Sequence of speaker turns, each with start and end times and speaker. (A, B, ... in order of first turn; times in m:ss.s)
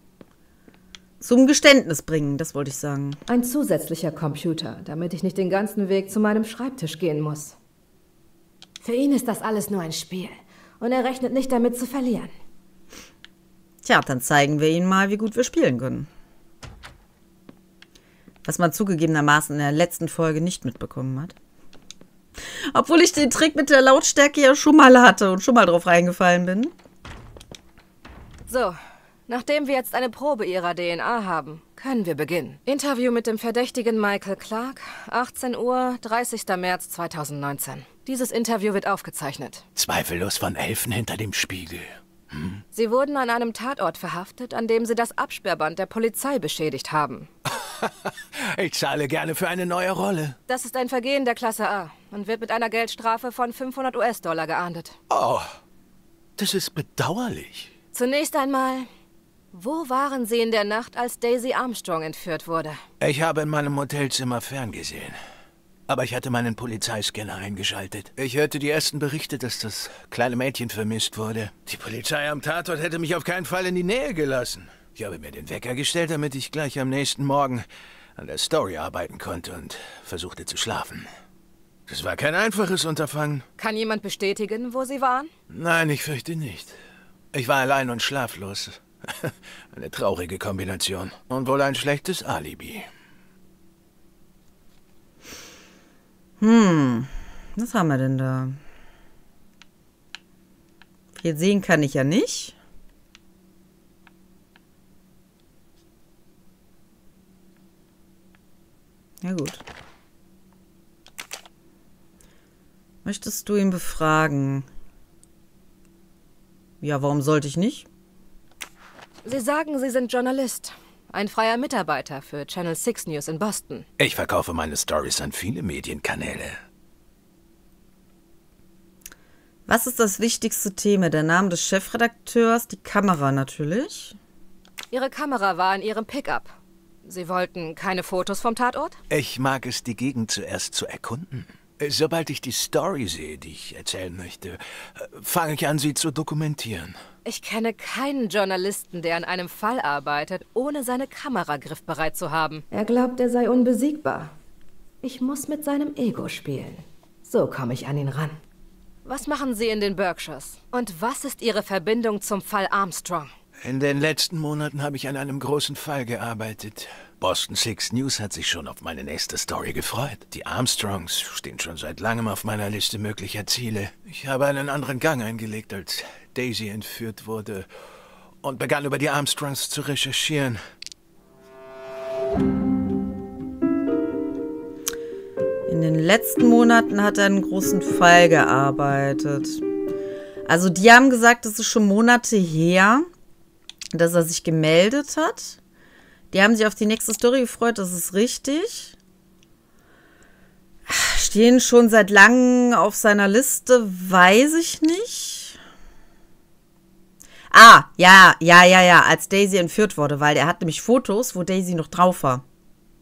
0:01.2-0:03.2 A
0:03.3-0:07.6 B
0:08.8-0:12.3 B
0:13.8-0:16.1 A
0:18.4-0:21.4 A
0:22.7-0:26.7 A
0:28.5-0:28.8 B
0:29.3-0:39.6 B
0:39.8-0:42.6 C
0:42.7-0:47.3 B
0:47.5-0:50.4 C
0:50.5-0:55.0 B
0:55.1-0:55.6 C
0:56.4-0:57.7 C
0:57.9-0:58.9 B
0:59.5-1:02.8 B
1:03.0-1:05.2 C
1:05.9-1:17.6 C
1:18.2-1:21.1 C
1:21.9-1:23.4 C
1:23.6-1:25.3 B
1:25.5-1:26.8 C
1:27.3-1:32.8 C
1:36.4-1:38.6 A
1:41.1-1:42.6 A
1:49.2-1:49.6 A
1:53.0-1:54.7 A
1:56.8-1:57.9 A
1:59.2-2:03.8 B
2:04.0-2:06.6 C
2:09.7-2:14.2 A
2:14.9-2:19.0 B
2:19.1-2:27.0 C
2:27.2-2:34.3 B
2:35.0-2:38.4 B
2:39.0-2:43.3 B
2:43.6-2:57.7 C
2:58.4-3:00.6 C
3:05.7-3:09.6 A
3:10.5-3:13.1 A
3:13.9-3:15.6 A
3:16.3-3:19.0 A
3:20.9-3:25.6 A
3:27.5-3:32.4 A